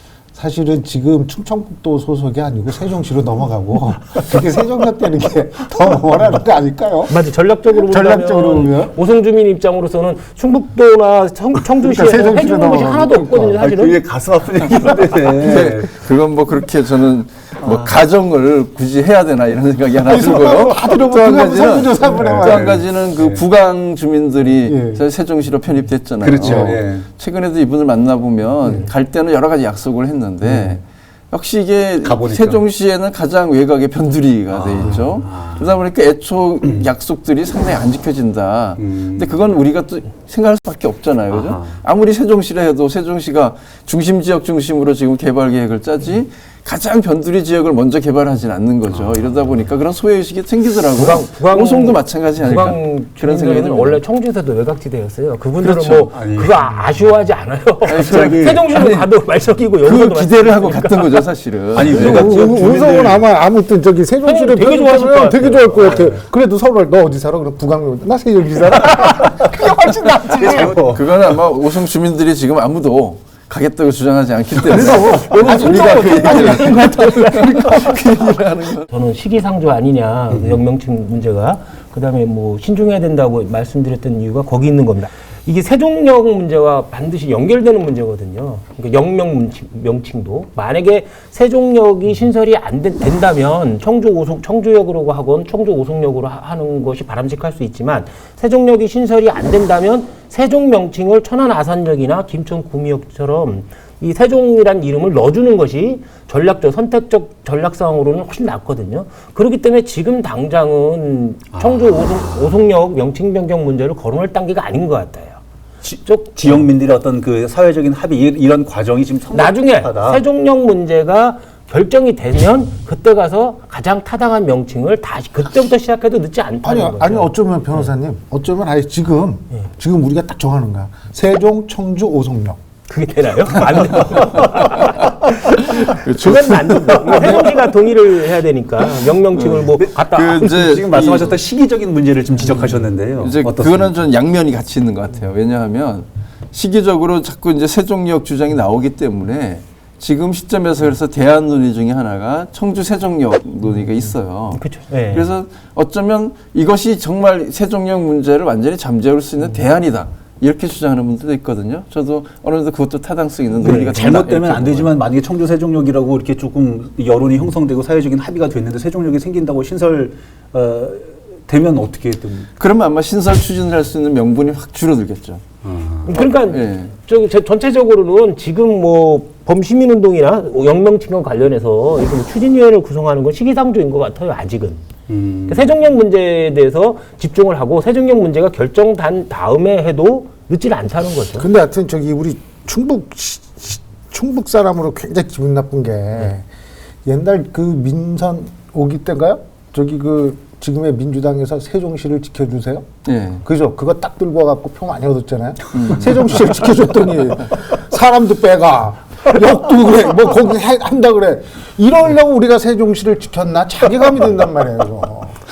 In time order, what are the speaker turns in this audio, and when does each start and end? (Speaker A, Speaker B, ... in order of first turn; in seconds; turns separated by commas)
Speaker A: 0.3-7.2, Speaker B: 7.1-14.0, Speaker A: 7.7-8.9, Speaker A: 11.8-13.7, Speaker C: 13.6-15.9, Speaker D: 15.4-54.0, Speaker C: 17.6-17.9, Speaker A: 20.0-22.8, Speaker C: 22.1-23.4, Speaker A: 24.6-25.0, Speaker C: 26.2-27.1, Speaker A: 26.4-26.8, Speaker C: 32.0-32.6, Speaker C: 34.5-35.7, Speaker C: 38.8-39.4, Speaker C: 41.3-41.8, Speaker C: 49.0-49.2, Speaker B: 51.0-61.2, Speaker D: 55.6-56.1, Speaker C: 56.1-56.5, Speaker D: 57.9-59.1, Speaker C: 58.0-58.6, Speaker D: 59.8-62.5, Speaker C: 61.7-63.2, Speaker A: 61.9-71.0, Speaker B: 64.2-66.2, Speaker C: 70.2-71.0, Speaker D: 70.6-78.9, Speaker A: 74.7-77.6, Speaker B: 74.8-78.0, Speaker B: 78.9-115.4, Speaker C: 111.5-112.5, Speaker C: 115.8-120.2, Speaker B: 116.0-116.6, Speaker B: 119.3-127.3, Speaker A: 126.6-132.6, Speaker B: 132.9-140.6, Speaker D: 135.8-137.7, Speaker D: 139.3-141.4, Speaker C: 139.8-143.9, Speaker D: 142.4-164.9, Speaker B: 154.5-155.3, Speaker C: 163.6-172.5, Speaker B: 163.6-163.9, Speaker D: 172.6-175.4, Speaker C: 175.6-176.2, Speaker B: 176.0-184.8, Speaker D: 176.2-176.9, Speaker C: 185.1-185.7, Speaker B: 185.5-191.5, Speaker A: 191.3-196.4, Speaker A: 197.0-202.9, Speaker D: 203.1-203.4, Speaker A: 203.4-215.4, Speaker D: 205.7-206.2